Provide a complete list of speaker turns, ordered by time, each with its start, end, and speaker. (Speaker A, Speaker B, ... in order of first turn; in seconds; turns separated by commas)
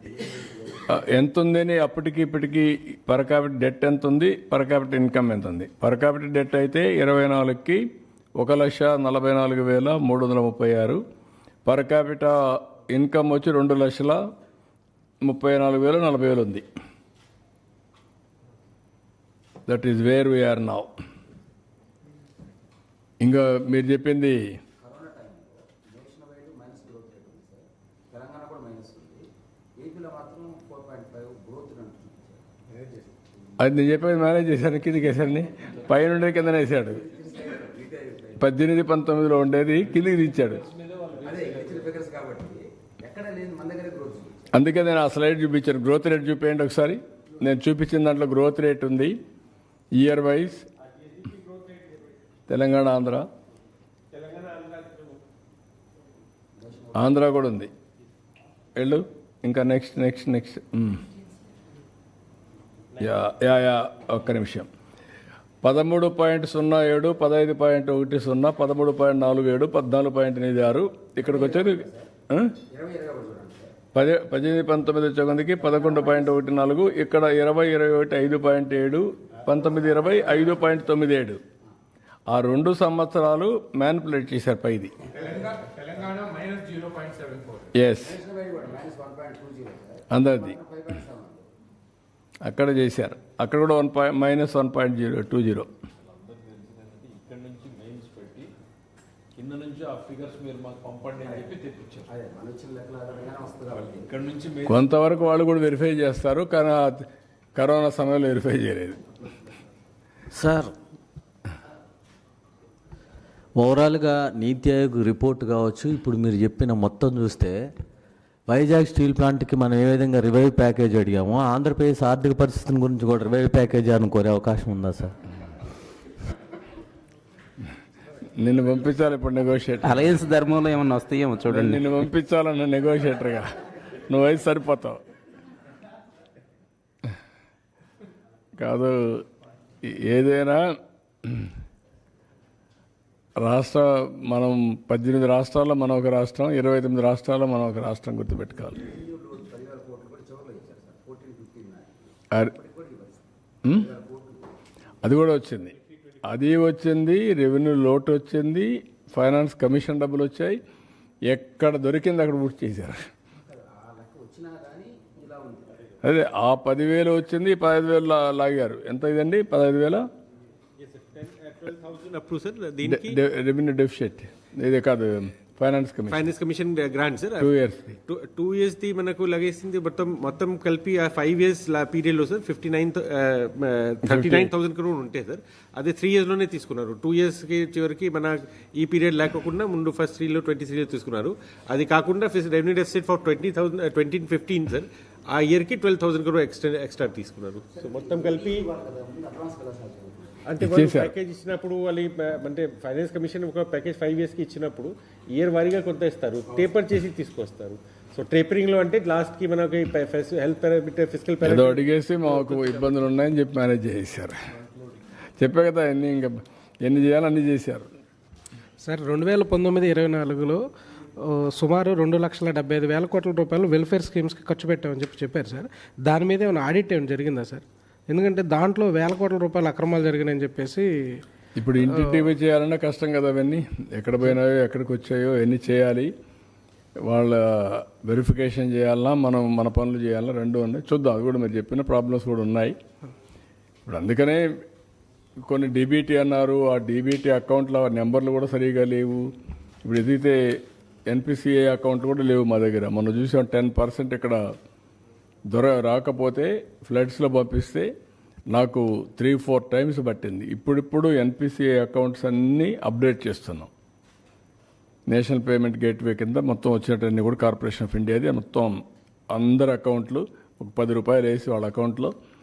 Speaker A: 0.9-7.8, Speaker A: 8.4-11.0, Speaker A: 11.7-14.2, Speaker A: 15.2-16.6, Speaker A: 19.7-20.9, Speaker A: 23.2-24.4, Speaker B: 24.8-29.2, Speaker B: 29.8-32.8, Speaker A: 33.6-37.0, Speaker B: 36.9-38.4, Speaker A: 38.4-40.6, Speaker C: 39.9-41.8, Speaker B: 41.2-44.4, Speaker A: 44.5-49.2, Speaker A: 50.0-50.7, Speaker D: 51.0-52.0, Speaker A: 52.5-53.3, Speaker D: 54.1-55.2, Speaker B: 56.6-57.2, Speaker A: 57.0-57.7, Speaker A: 58.8-61.0, Speaker A: 63.0-64.7, Speaker A: 65.6-72.5, Speaker B: 71.2-72.1, Speaker B: 72.7-73.7, Speaker A: 74.0-81.4, Speaker A: 82.3-84.9, Speaker C: 86.2-87.5, Speaker A: 87.8-88.2, Speaker B: 88.0-91.5, Speaker A: 90.1-90.6, Speaker A: 92.4-95.7, Speaker C: 96.1-98.5, Speaker C: 99.4-102.1, Speaker B: 102.1-104.1, Speaker C: 104.0-104.8, Speaker A: 104.7-109.0, Speaker E: 110.3-110.8, Speaker E: 113.5-117.7, Speaker E: 118.5-125.2, Speaker A: 128.3-130.1, Speaker F: 129.8-131.8, Speaker A: 131.5-135.0, Speaker A: 138.6-139.2, Speaker A: 139.8-141.5, Speaker A: 143.4-148.8, Speaker B: 148.8-154.4, Speaker A: 155.0-160.6, Speaker A: 161.3-163.0, Speaker B: 163.5-165.9, Speaker A: 166.0-170.1, Speaker D: 170.8-173.2, Speaker A: 172.8-176.3, Speaker D: 176.1-177.5, Speaker A: 177.4-178.0, Speaker D: 178.1-198.7, Speaker A: 184.0-184.5, Speaker B: 197.9-200.4, Speaker D: 200.5-212.8, Speaker A: 200.6-201.1, Speaker A: 211.4-214.4, Speaker A: 215.4-217.9, Speaker G: 218.8-220.6, Speaker G: 221.2-231.2, Speaker A: 231.6-236.1, Speaker G: 231.9-232.3, Speaker A: 237.1-242.8, Speaker A: 243.9-244.5, Speaker A: 245.4-249.3, Speaker A: 249.8-250.4, Speaker A: 251.1-254.4, Speaker A: 255.5-257.9, Speaker A: 258.5-263.7, Speaker A: 265.1-268.8, Speaker A: 269.3-272.1